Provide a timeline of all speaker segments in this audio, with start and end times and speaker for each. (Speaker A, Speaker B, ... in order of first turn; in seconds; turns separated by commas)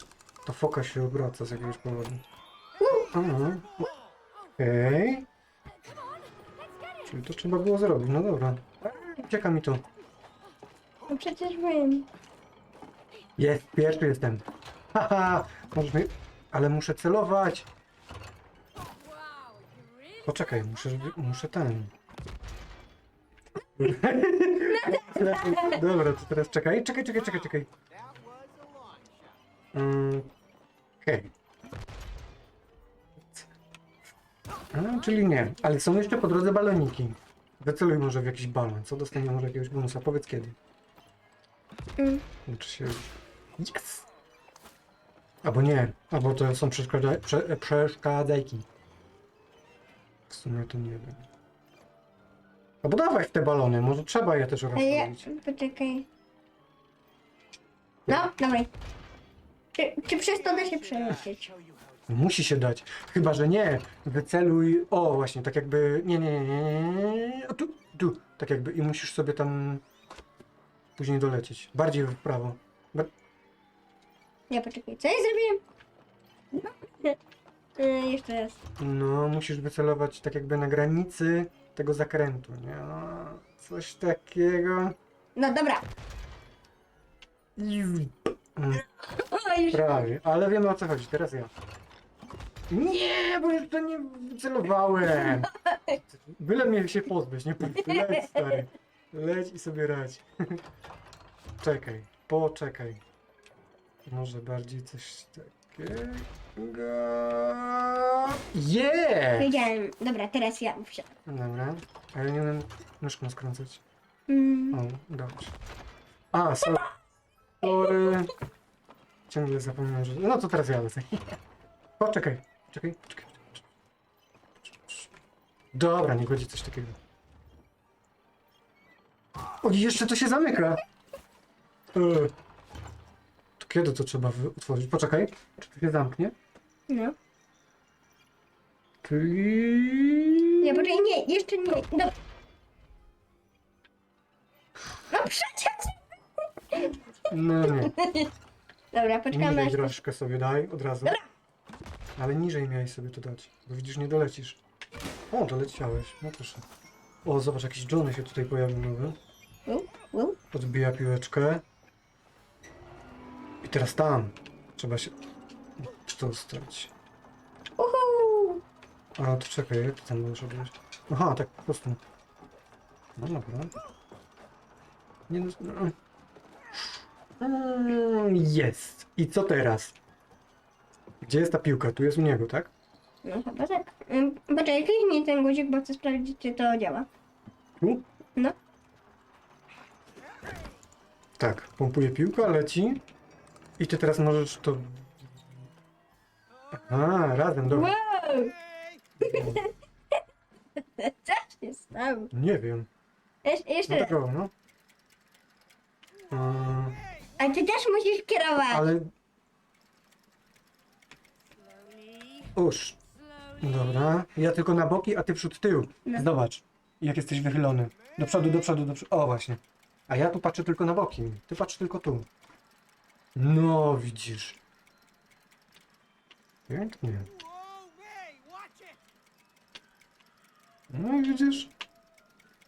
Speaker A: 0.5-2.2, Speaker B: 2.8-3.1, Speaker A: 3.1-3.9, Speaker A: 4.6-5.3, Speaker A: 7.1-9.8, Speaker B: 11.1-12.1, Speaker A: 13.4-17.7, Speaker A: 20.2-21.9, Speaker A: 23.8-27.7, Speaker B: 24.7-25.8, Speaker A: 29.7-30.3, Speaker A: 31.0-31.3, Speaker A: 33.2-33.5, Speaker A: 34.7-40.6, Speaker B: 42.0-42.2, Speaker A: 42.5-44.1, Speaker A: 45.4-48.7, Speaker A: 50.3-51.3, Speaker A: 52.8-55.3, Speaker B: 54.8-56.1, Speaker B: 58.1-58.7, Speaker B: 59.8-61.5, Speaker A: 62.1-69.8, Speaker A: 71.0-73.1, Speaker B: 74.5-75.6, Speaker B: 76.5-77.2, Speaker B: 77.8-78.6, Speaker A: 78.8-85.0, Speaker B: 85.4-85.9, Speaker A: 87.6-88.8, Speaker B: 89.1-90.1, Speaker A: 89.7-91.5, Speaker A: 92.7-95.5, Speaker B: 95.1-96.0, Speaker A: 96.1-100.6, Speaker B: 97.8-98.5, Speaker A: 101.6-103.0, Speaker A: 104.1-109.6, Speaker B: 109.4-111.1, Speaker A: 111.3-113.8, Speaker B: 114.3-114.8, Speaker A: 114.7-115.5, Speaker A: 116.3-116.9, Speaker A: 117.6-118.3, Speaker A: 119.3-121.4, Speaker A: 122.0-123.6, Speaker A: 124.6-125.1, Speaker A: 125.7-127.0, Speaker A: 129.6-130.8, Speaker A: 131.9-132.3, Speaker A: 133.6-136.3, Speaker B: 136.9-137.2, Speaker A: 139.0-141.0, Speaker B: 140.6-142.1, Speaker B: 145.1-146.0, Speaker B: 146.7-147.0, Speaker A: 147.3-147.9, Speaker B: 147.7-148.3, Speaker B: 148.9-150.0, Speaker A: 149.3-151.2, Speaker A: 152.2-154.6, Speaker A: 155.3-156.6, Speaker A: 157.2-159.2, Speaker B: 159.7-160.4, Speaker A: 160.5-161.7, Speaker A: 163.6-165.2, Speaker A: 165.8-166.9, Speaker B: 167.8-168.6, Speaker A: 169.2-172.0, Speaker A: 173.2-173.7, Speaker A: 175.3-175.9, Speaker A: 177.4-180.0, Speaker A: 181.2-182.7, Speaker B: 183.2-187.1, Speaker A: 191.4-193.0, Speaker A: 193.8-195.5, Speaker A: 196.7-198.0, Speaker B: 197.7-198.6, Speaker A: 199.2-199.6, Speaker B: 199.2-199.7, Speaker B: 201.0-202.3, Speaker A: 202.3-202.9, Speaker B: 203.4-204.2, Speaker A: 203.9-204.5, Speaker A: 206.3-207.0, Speaker B: 207.4-208.9, Speaker A: 208.7-209.1, Speaker A: 212.6-213.0, Speaker A: 213.6-222.3, Speaker A: 223.4-224.6, Speaker A: 226.7-227.3, Speaker A: 230.9-231.7